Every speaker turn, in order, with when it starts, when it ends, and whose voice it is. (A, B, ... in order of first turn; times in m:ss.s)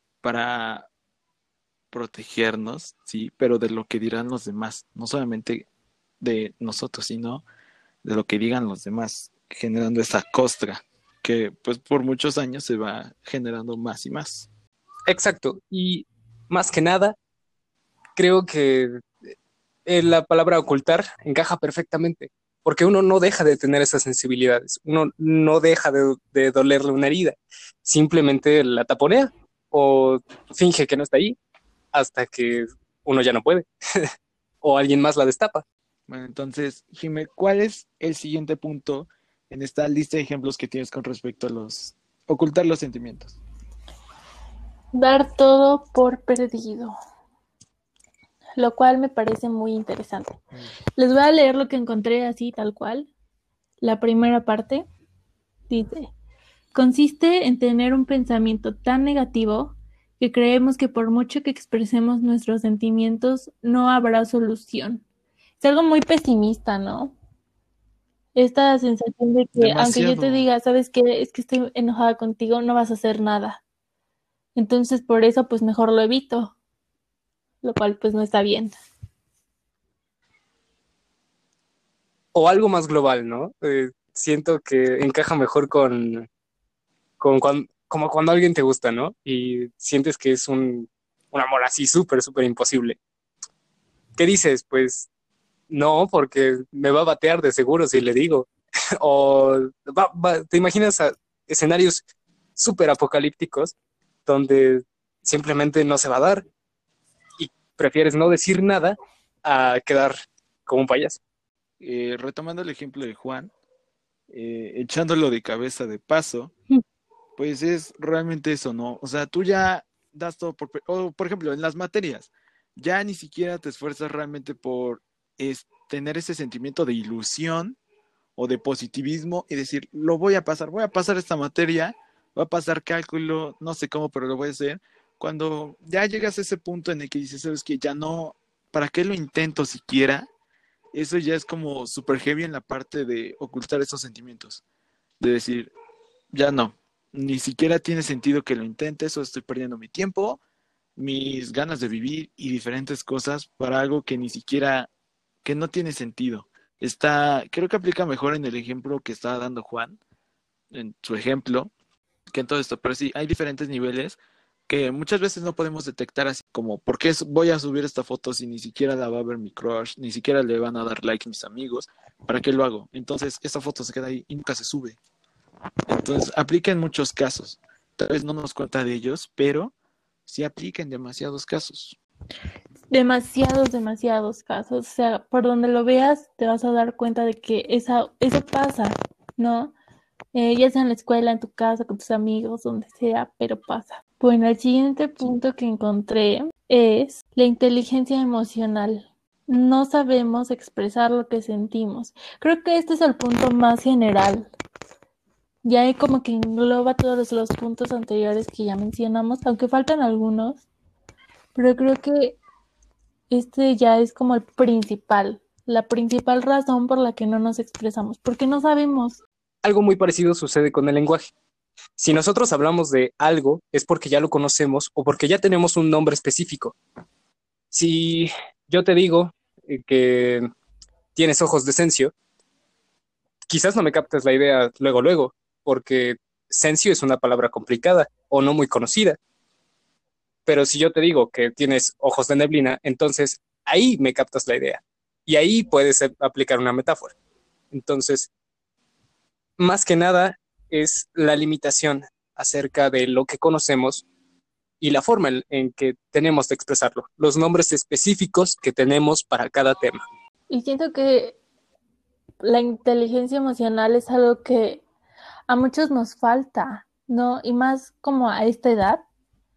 0:00.2-0:00.9 A
0:01.9-0:05.6 A
0:06.2-0:07.4 A
0:08.0-0:14.5 A
0:15.1-0:17.2 B
0:18.2-0:19.0 B
0:19.8-0:31.4 B
0:31.9-0:34.1 B
0:34.6-0:35.6 B
0:36.1-0:43.4 A
0:44.9-0:46.9 C
0:48.6-0:50.4 C
0:51.0-0:53.1 C
0:53.8-0:54.8 C
0:55.7-0:56.1 C
0:56.7-1:05.0 C
1:05.6-1:07.1 C
1:08.3-1:13.6 C
1:09.6-1:10.5 A
1:14.5-1:16.5 C
1:17.6-1:18.7 C
1:22.3-1:26.3 B
1:27.2-1:33.0 B
1:34.2-1:35.1 B
1:35.7-1:38.5 B
1:39.0-1:42.0 B
1:42.6-1:43.7 B
1:44.2-1:46.4 B
1:47.4-1:50.1 B
1:50.7-1:51.2 B
1:51.8-1:53.5 A
1:54.3-1:56.5 A
1:57.4-2:07.8 A
2:08.4-2:20.3 A
2:20.9-2:24.6 A
2:25.2-2:25.7 A
2:26.3-2:30.4 A
2:31.0-2:34.9 A
2:35.4-2:40.0 A
2:40.7-2:41.7 A
2:42.3-2:55.0 A
2:55.9-2:59.7 A
3:00.3-3:02.0 A
3:02.9-3:09.7 C
3:10.3-3:24.5 C
3:25.6-3:30.6 C
3:31.5-3:32.4 C
3:33.3-3:39.2 C
3:39.6-3:41.3 B
3:42.0-3:46.8 B
3:47.7-3:50.5 B
3:51.2-3:52.1 B
3:53.5-3:59.2 B
4:00.4-4:07.1 B
4:07.7-4:08.3 B
4:09.6-4:14.0 B
4:14.8-4:20.0 B
4:20.5-4:21.4 C
4:22.4-4:24.8 C
4:25.5-4:29.0 C